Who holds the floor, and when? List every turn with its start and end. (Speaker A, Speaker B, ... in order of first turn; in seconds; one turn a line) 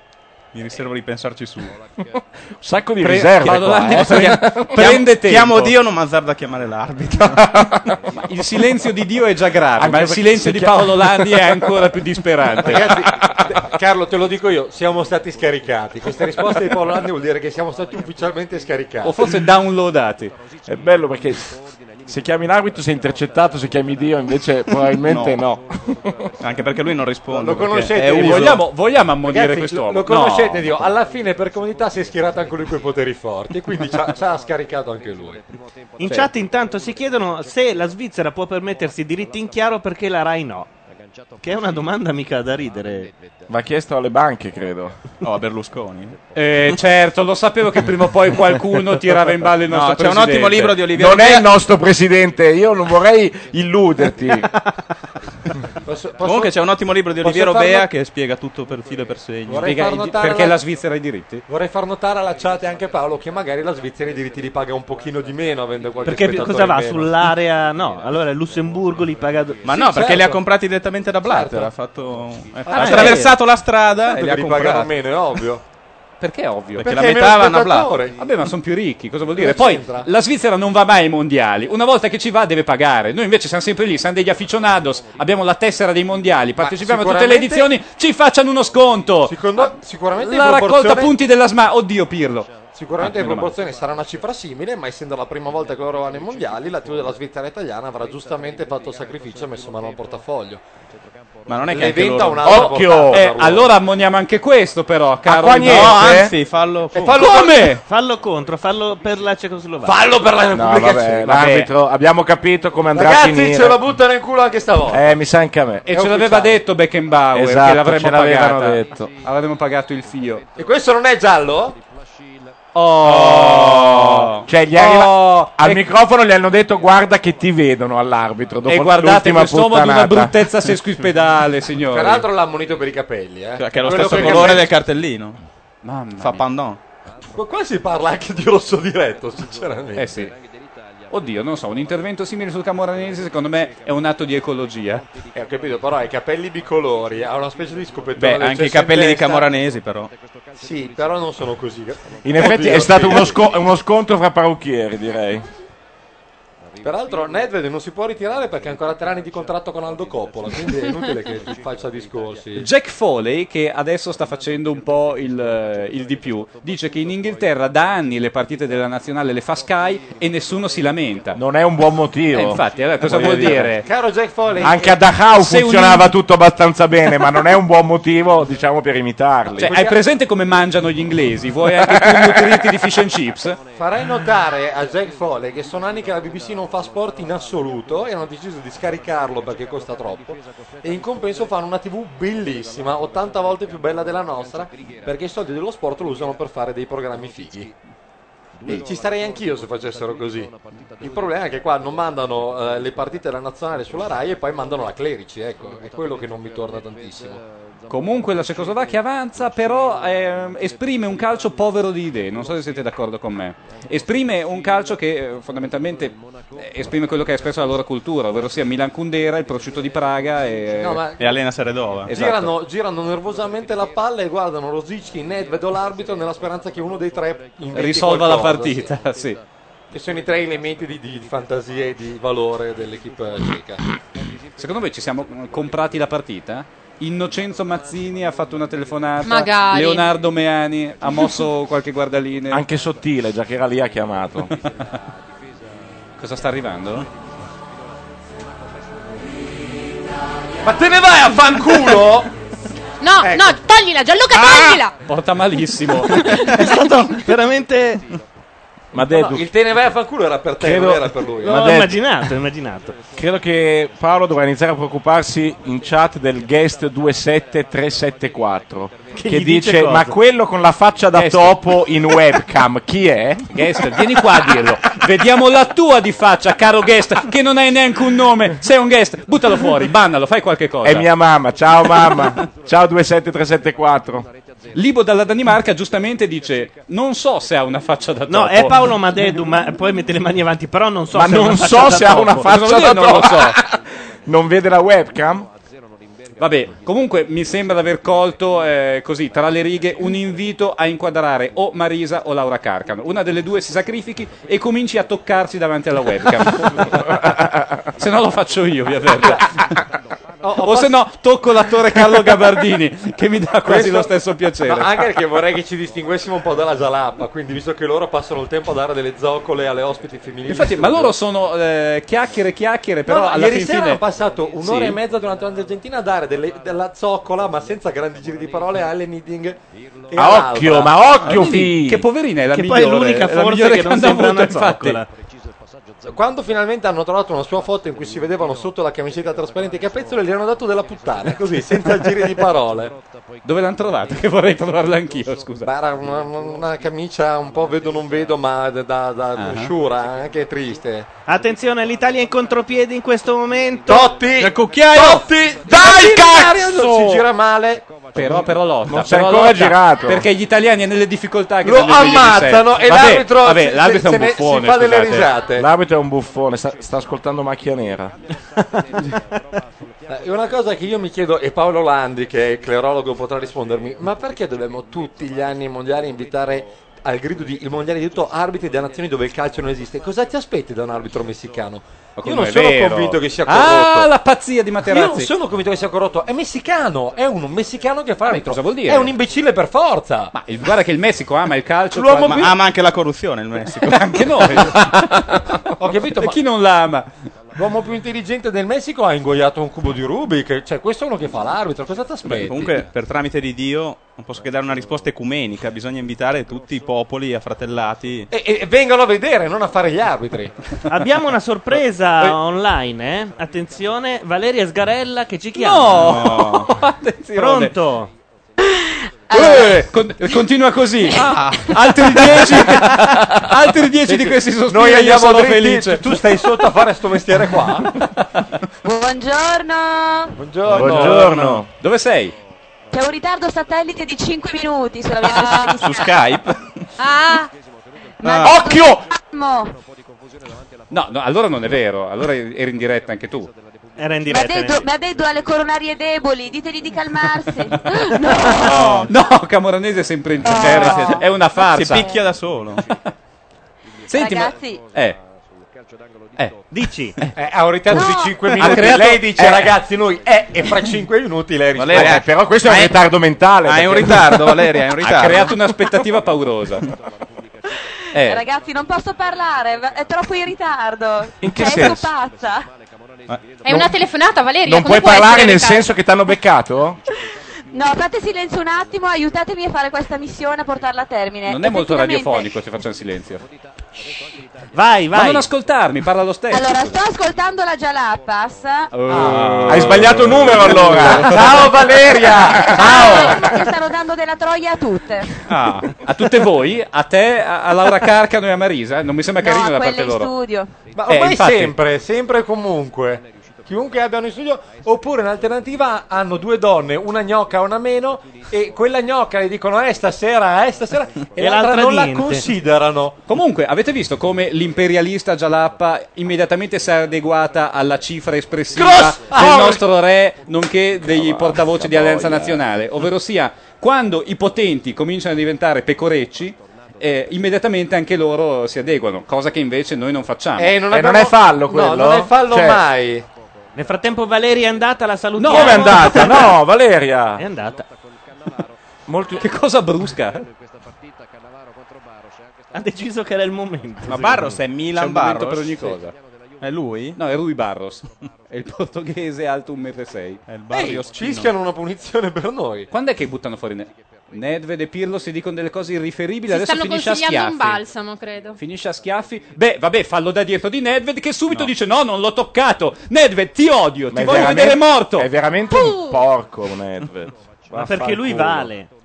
Speaker A: 0.5-1.8
Speaker B: 2.6-4.9
Speaker C: 3.0-5.7
Speaker A: 4.8-7.4
Speaker B: 7.4-7.8
Speaker C: 8.1-12.9
Speaker B: 9.8-11.7
Speaker D: 12.6-19.3
Speaker B: 12.6-13.7
Speaker C: 19.0-20.3
Speaker B: 20.7-26.1
Speaker A: 25.0-25.4
Speaker A: 26.4-28.6
Speaker D: 27.3-28.6
Speaker C: 28.1-30.8
Speaker D: 29.2-35.4
Speaker E: 36.0-40.7
Speaker E: 41.4-43.1
Speaker B: 43.5-45.0
Speaker A: 45.2-46.2
Speaker C: 46.4-50.8
Speaker A: 49.7-51.5
Speaker B: 50.9-54.5
Speaker D: 55.9-56.6
Speaker A: 56.2-59.7
Speaker D: 57.2-57.8
Speaker D: 59.5-60.6
Speaker C: 59.6-61.4
Speaker D: 61.5-67.1
Speaker E: 66.0-69.7
Speaker A: 69.6-74.9
Speaker D: 69.7-70.4
Speaker D: 71.2-71.7
Speaker C: 72.7-73.3
Speaker D: 72.7-73.4
Speaker E: 72.8-73.3
Speaker D: 74.0-75.6
Speaker C: 76.2-77.0
Speaker A: 76.8-77.9
Speaker D: 76.8-78.2
Speaker C: 78.2-93.5
Speaker D: 79.3-80.1
Speaker D: 86.6-87.7
Speaker D: 89.2-91.2
Speaker D: 92.7-100.6
Speaker A: 101.5-102.6
Speaker D: 101.7-103.7
Speaker B: 102.4-103.3
Speaker C: 103.1-106.1
Speaker B: 105.3-106.3
Speaker A: 105.6-107.2
Speaker D: 106.9-107.8
Speaker C: 107.1-107.8
Speaker E: 107.8-110.0
Speaker D: 109.8-111.3
Speaker B: 110.5-113.8
Speaker C: 111.2-111.7
Speaker D: 112.9-115.0
Speaker B: 114.9-115.9
Speaker C: 115.9-120.4
Speaker D: 115.9-116.6
Speaker B: 117.3-119.1
Speaker D: 120.6-121.8
Speaker C: 122.7-125.9
Speaker A: 123.0-124.5
Speaker B: 124.5-130.3
Speaker C: 128.7-132.3
Speaker D: 131.9-134.7
Speaker A: 133.6-135.4
Speaker C: 134.0-134.5
Speaker C: 135.8-136.4
Speaker A: 136.2-136.8
Speaker D: 137.3-140.2
Speaker C: 140.0-140.3
Speaker C: 141.1-145.1
Speaker D: 145.3-149.5
Speaker A: 148.2-150.1
Speaker D: 150.6-153.4
Speaker B: 152.2-155.5
Speaker D: 156.8-162.7
Speaker C: 162.6-171.4
Speaker B: 171.4-173.7
Speaker C: 172.3-173.9
Speaker D: 173.8-175.0
Speaker B: 174.6-179.7
Speaker C: 175.3-176.1
Speaker D: 179.6-180.0
Speaker C: 179.6-183.6
Speaker B: 181.8-182.6
Speaker D: 183.8-197.7
Speaker D: 198.7-207.4
Speaker C: 207.9-221.0
Speaker D: 220.8-221.4
Speaker A: 221.2-222.1
Speaker C: 222.1-222.5
Speaker D: 222.1-228.9
Speaker C: 227.7-229.4
Speaker D: 229.9-233.8
Speaker C: 234.6-242.7
Speaker F: 239.2-240.1
Speaker B: 242.5-244.5
Speaker C: 246.2-247.1
Speaker D: 250.6-252.3
Speaker F: 253.0-255.0
Speaker D: 253.2-253.6
Speaker C: 254.3-256.4
Speaker F: 256.2-256.6
Speaker E: 256.4-258.0
Speaker B: 258.9-259.5
Speaker D: 259.1-261.6
Speaker B: 260.6-262.0
Speaker E: 261.4-263.0
Speaker B: 263.1-273.5
Speaker E: 269.1-270.2
Speaker C: 271.1-271.6
Speaker C: 273.5-281.1
Speaker B: 280.8-284.3
Speaker C: 284.7-289.0
Speaker E: 288.3-292.5
Speaker B: 291.1-295.5
Speaker C: 292.4-293.6
Speaker C: 296.4-307.3
Speaker C: 307.9-309.8
Speaker D: 310.4-310.9
Speaker C: 310.6-314.9
Speaker D: 313.7-321.1
Speaker C: 320.5-324.0
Speaker D: 323.1-331.2
Speaker C: 324.6-325.0
Speaker B: 330.2-332.1
Speaker C: 331.2-335.0
Speaker E: 332.5-335.1
Speaker D: 336.0-343.0
Speaker C: 343.4-345.7
Speaker D: 345.6-351.1
Speaker C: 349.4-349.7
Speaker E: 351.3-354.1
Speaker D: 353.9-358.4
Speaker A: 354.4-355.2
Speaker B: 354.7-357.2
Speaker C: 358.1-365.3
Speaker B: 358.2-360.3
Speaker D: 361.6-365.7
Speaker B: 365.6-368.1
Speaker D: 370.1-384.1
Speaker C: 382.2-385.3
Speaker D: 384.8-390.3
Speaker C: 388.3-389.1
Speaker C: 390.3-392.5
Speaker D: 391.9-392.5
Speaker A: 392.1-394.7
Speaker C: 393.8-397.1
Speaker D: 395.8-396.4
Speaker D: 397.6-402.9
Speaker A: 402.3-408.3
Speaker D: 408.3-410.6
Speaker E: 410.9-416.2
Speaker C: 415.6-417.7
Speaker A: 416.0-416.7
Speaker E: 417.4-418.1
Speaker G: 419.3-419.8
Speaker C: 419.3-426.2
Speaker A: 421.2-421.7
Speaker D: 424.1-427.9
Speaker G: 428.8-430.3
Speaker D: 430.4-431.5
Speaker A: 430.7-431.6
Speaker B: 430.7-431.7
Speaker C: 431.8-432.4
Speaker G: 432.9-436.1
Speaker F: 435.2-435.9
Speaker A: 435.7-436.9
Speaker F: 437.0-437.5
Speaker G: 438.2-439.7
Speaker A: 438.2-438.6
Speaker B: 438.4-439.0
Speaker C: 440.9-443.5
Speaker E: 444.0-444.9
Speaker G: 444.3-449.1
Speaker C: 448.2-452.1
Speaker G: 450.4-451.2
Speaker A: 450.5-452.8
Speaker C: 454.1-455.2
Speaker G: 454.1-454.8
Speaker E: 456.7-457.2
Speaker D: 457.4-462.3
Speaker G: 457.9-458.5
Speaker C: 458.6-459.4
Speaker B: 458.6-459.7
Speaker A: 461.8-463.0
Speaker B: 461.9-464.7
Speaker A: 463.6-465.6
Speaker C: 465.0-466.9
Speaker C: 468.1-468.4
Speaker G: 468.1-472.7
Speaker B: 471.4-472.1
Speaker A: 473.3-473.6
Speaker F: 473.6-475.9
Speaker B: 473.7-473.9
Speaker B: 474.6-477.0
Speaker G: 477.7-482.5
Speaker C: 481.5-483.4
Speaker E: 484.7-485.5
Speaker C: 485.1-487.0
Speaker G: 486.5-488.9
Speaker C: 488.9-491.6
Speaker D: 489.1-489.7
Speaker B: 489.7-493.7
Speaker D: 490.6-492.8
Speaker G: 492.7-495.3
Speaker C: 495.4-500.3
Speaker G: 499.4-500.7
Speaker D: 500.9-513.2
Speaker C: 501.1-501.8
Speaker E: 511.4-512.5
Speaker C: 513.3-530.8
Speaker D: 518.8-519.8
Speaker B: 521.0-522.6
Speaker D: 530.6-533.3
Speaker B: 530.9-532.8
Speaker E: 533.8-536.5
Speaker C: 535.4-536.5
Speaker B: 535.5-537.4
Speaker E: 537.4-537.9
Speaker B: 539.1-539.5
Speaker C: 539.4-540.5
Speaker E: 542.7-544.6
Speaker A: 544.1-545.9
Speaker C: 544.9-546.1
Speaker A: 546.6-547.2
Speaker C: 547.2-550.4
Speaker A: 550.5-551.5
Speaker D: 550.7-552.9
Speaker C: 552.9-557.9
Speaker F: 556.5-558.6
Speaker C: 558.6-565.3
Speaker B: 564.1-568.7
Speaker F: 565.7-566.3
Speaker E: 567.7-568.9